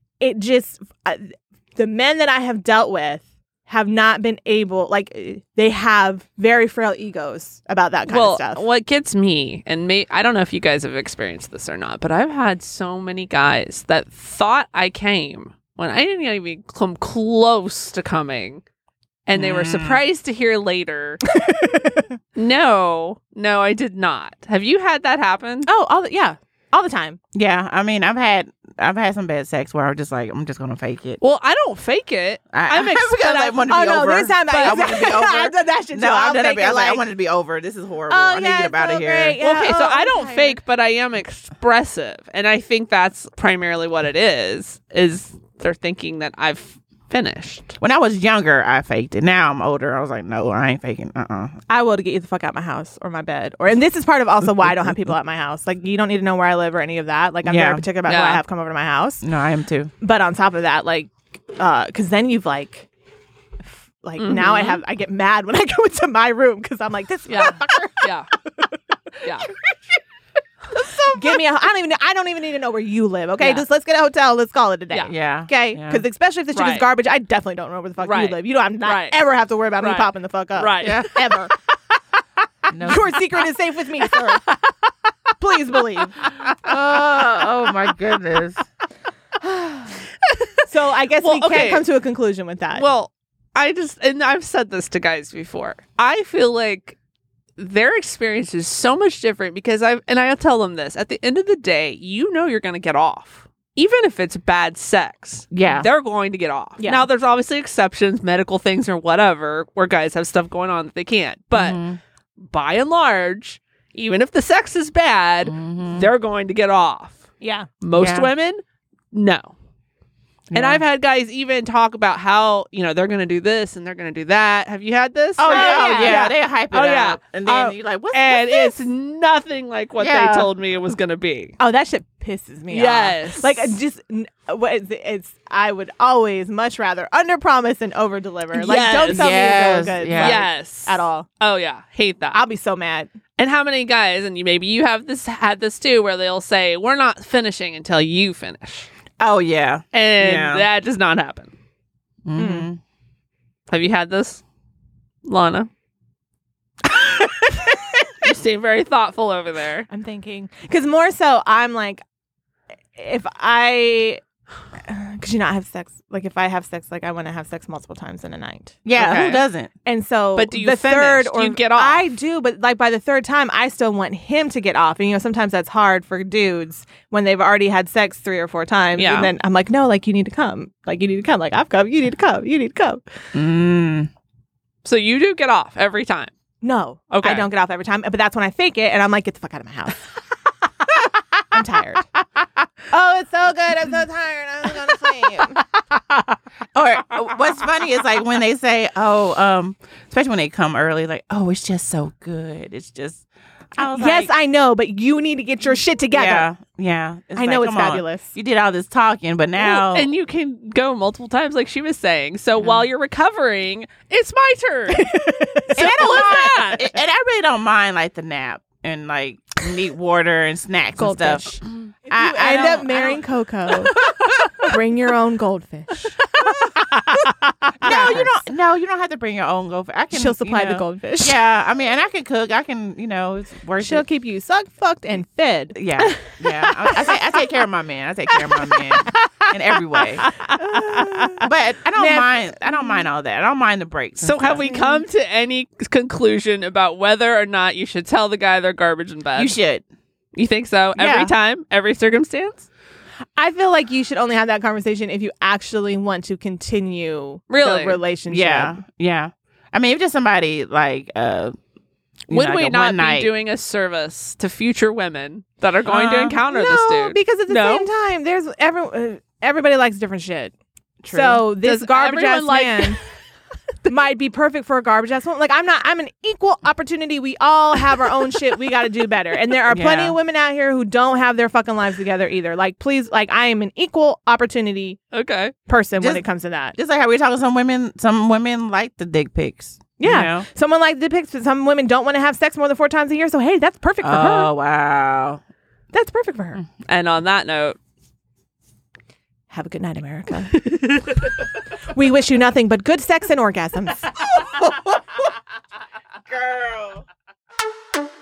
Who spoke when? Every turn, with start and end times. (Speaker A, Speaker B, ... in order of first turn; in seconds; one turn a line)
Speaker A: 0.2-8.6
Speaker B: 8.1-18.6
Speaker B: 19.3-21.3
Speaker C: 19.4-20.0
Speaker A: 21.4-22.0
Speaker B: 22.4-25.7
Speaker A: 25.7-27.2
Speaker C: 27.3-31.2
Speaker B: 31.2-34.8
Speaker C: 32.5-39.4
Speaker A: 33.7-37.0
Speaker A: 38.1-40.6
Speaker B: 39.4-47.8
Speaker C: 47.8-51.6
Speaker A: 51.7-59.2
Speaker C: 57.5-57.9
Speaker B: 58.0-58.4
Speaker C: 59.2-59.9
Speaker A: 60.0-62.9
Speaker A: 63.7-68.7
Speaker B: 64.2-64.8
Speaker B: 67.3-68.3
Speaker B: 69.2-69.5
Speaker A: 71.1-81.5
Speaker B: 73.4-73.7
Speaker C: 75.1-76.0
Speaker B: 76.5-76.9
Speaker B: 78.0-79.2
Speaker B: 79.8-81.3
Speaker C: 80.8-81.3
Speaker C: 82.7-83.2
Speaker A: 82.8-84.4
Speaker B: 84.1-84.8
Speaker A: 85.4-86.2
Speaker B: 86.2-86.5
Speaker C: 86.6-88.6
Speaker A: 89.4-90.0
Speaker B: 90.2-91.9
Speaker A: 90.7-92.8
Speaker B: 92.8-97.0
Speaker B: 97.6-111.8
Speaker C: 105.5-105.9
Speaker A: 106.8-107.1
Speaker C: 111.5-112.0
Speaker B: 112.4-117.3
Speaker C: 115.5-116.1
Speaker A: 117.4-117.7
Speaker B: 117.8-118.6
Speaker C: 118.0-118.3
Speaker B: 119.1-119.5
Speaker C: 120.5-120.8
Speaker B: 120.5-131.6
Speaker C: 125.4-128.8
Speaker A: 125.5-126.2
Speaker C: 130.0-130.5
Speaker A: 131.6-141.3
Speaker B: 132.7-133.8
Speaker B: 138.5-139.5
Speaker C: 138.9-140.4
Speaker B: 140.2-142.4
Speaker A: 142.3-143.1
Speaker B: 143.4-148.9
Speaker C: 149.2-150.7
Speaker B: 149.9-151.5
Speaker C: 152.3-152.8
Speaker A: 152.3-152.7
Speaker B: 153.7-154.4
Speaker B: 155.2-155.7
Speaker C: 156.9-157.5
Speaker B: 158.2-159.9
Speaker A: 159.9-162.0
Speaker A: 162.9-164.2
Speaker A: 164.8-169.2
Speaker C: 168.8-169.7
Speaker B: 169.0-169.4
Speaker A: 169.8-183.0
Speaker B: 170.4-172.1
Speaker B: 179.0-179.3
Speaker C: 183.3-184.1
Speaker B: 184.8-186.3
Speaker A: 186.6-190.0
Speaker B: 187.1-187.5
Speaker A: 191.5-192.1
Speaker A: 192.9-195.6
Speaker C: 196.8-203.2
Speaker C: 203.8-204.3
Speaker A: 203.8-206.5
Speaker C: 206.1-210.1
Speaker A: 207.4-208.3
Speaker B: 209.6-215.1
Speaker C: 212.6-212.9
Speaker A: 214.9-216.6
Speaker B: 215.7-216.9
Speaker C: 215.8-223.2
Speaker A: 221.0-224.0
Speaker A: 224.6-226.1
Speaker B: 226.4-228.2
Speaker A: 227.8-228.4
Speaker C: 227.8-234.1
Speaker A: 230.1-231.4
Speaker A: 233.8-237.1
Speaker C: 235.8-240.3
Speaker B: 240.2-240.6
Speaker A: 240.5-243.0
Speaker C: 241.3-244.7
Speaker B: 244.2-249.6
Speaker A: 244.6-245.0
Speaker C: 249.3-249.8
Speaker B: 250.3-252.7
Speaker C: 251.0-251.3
Speaker A: 253.4-258.8
Speaker B: 257.5-258.0
Speaker C: 258.3-261.6
Speaker C: 262.3-263.3
Speaker B: 262.3-267.9
Speaker A: 265.9-270.5
Speaker C: 271.0-271.4
Speaker A: 271.1-273.0
Speaker B: 271.3-273.0
Speaker A: 273.9-285.0
Speaker C: 279.7-280.2
Speaker B: 285.1-285.5
Speaker A: 285.7-286.8
Speaker C: 286.8-290.5
Speaker A: 290.0-294.5
Speaker C: 294.0-295.4
Speaker A: 295.9-296.6
Speaker B: 296.9-297.8
Speaker A: 299.5-300.8
Speaker A: 301.9-304.2
Speaker C: 304.3-305.2
Speaker C: 306.3-307.1